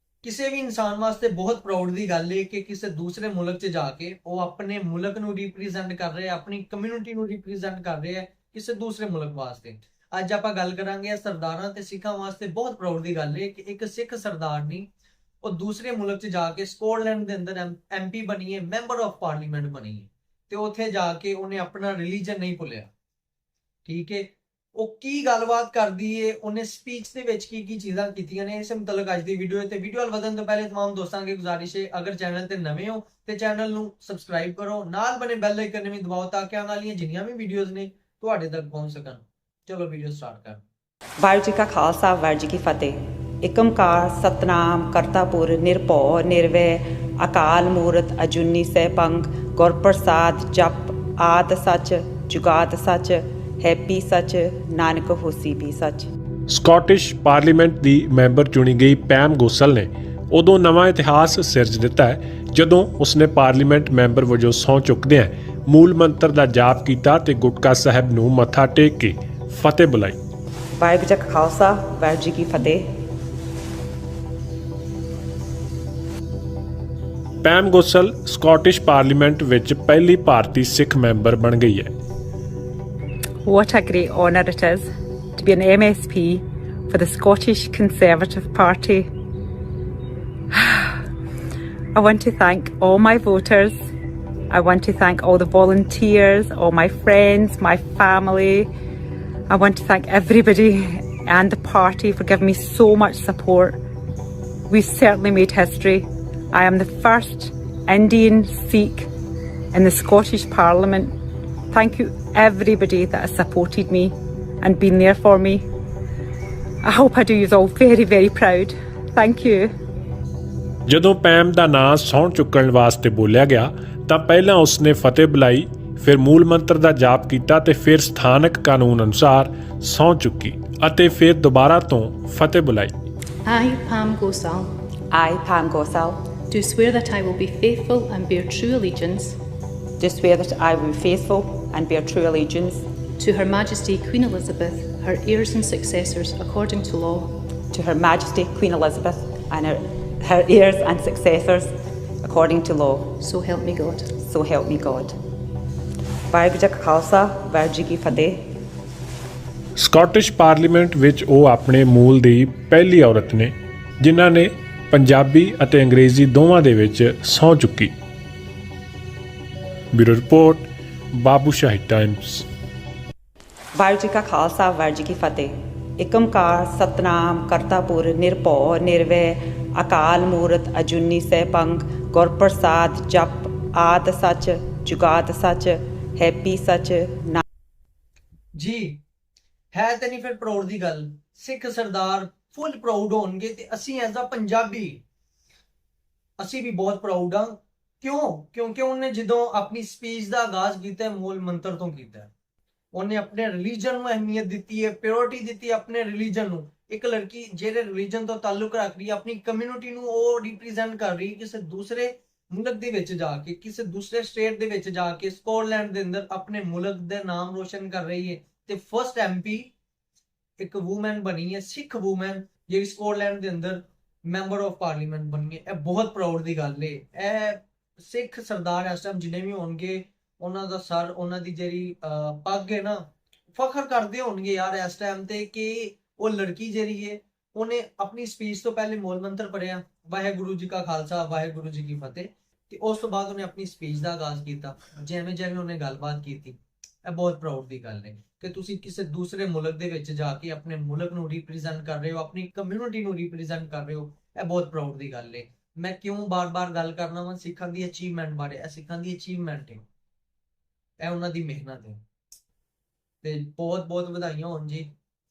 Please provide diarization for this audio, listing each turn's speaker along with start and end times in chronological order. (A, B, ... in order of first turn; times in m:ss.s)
0:00.2-0:14.9 A
0:15.4-0:22.9 A
0:23.9-0:40.6 A
0:41.2-0:56.1 B
0:56.5-1:10.2 C
1:10.8-1:12.9 B
1:17.4-1:21.9 C
1:23.5-1:24.8 D
1:25.4-1:29.0 D
1:32.0-1:33.7 D
1:34.5-1:38.7 D
1:39.5-1:43.8 D
1:44.7-1:49.1 D
1:49.7-1:51.1 D
1:51.7-1:54.1 D
1:54.6-1:55.6 D
1:56.9-1:59.7 D
2:00.9-2:12.9 C
2:13.4-2:14.7 E
2:15.1-2:16.2 B
2:16.5-2:19.4 E
2:20.0-2:22.8 B
2:23.2-2:27.4 E
2:27.7-2:31.7 B
2:32.2-2:33.2 B
2:33.2-2:34.1 E
2:34.2-2:35.1 B
2:36.3-2:38.4 B
2:39.8-2:47.9 C
2:49.9-2:52.5 C
2:53.8-3:07.4 B
3:08.6-3:09.0 A
3:09.7-3:15.0 A
3:16.4-3:22.3 A
3:22.9-3:39.7 A
3:40.6-4:19.8 A
4:21.0-4:22.0 A
4:23.2-4:24.9 A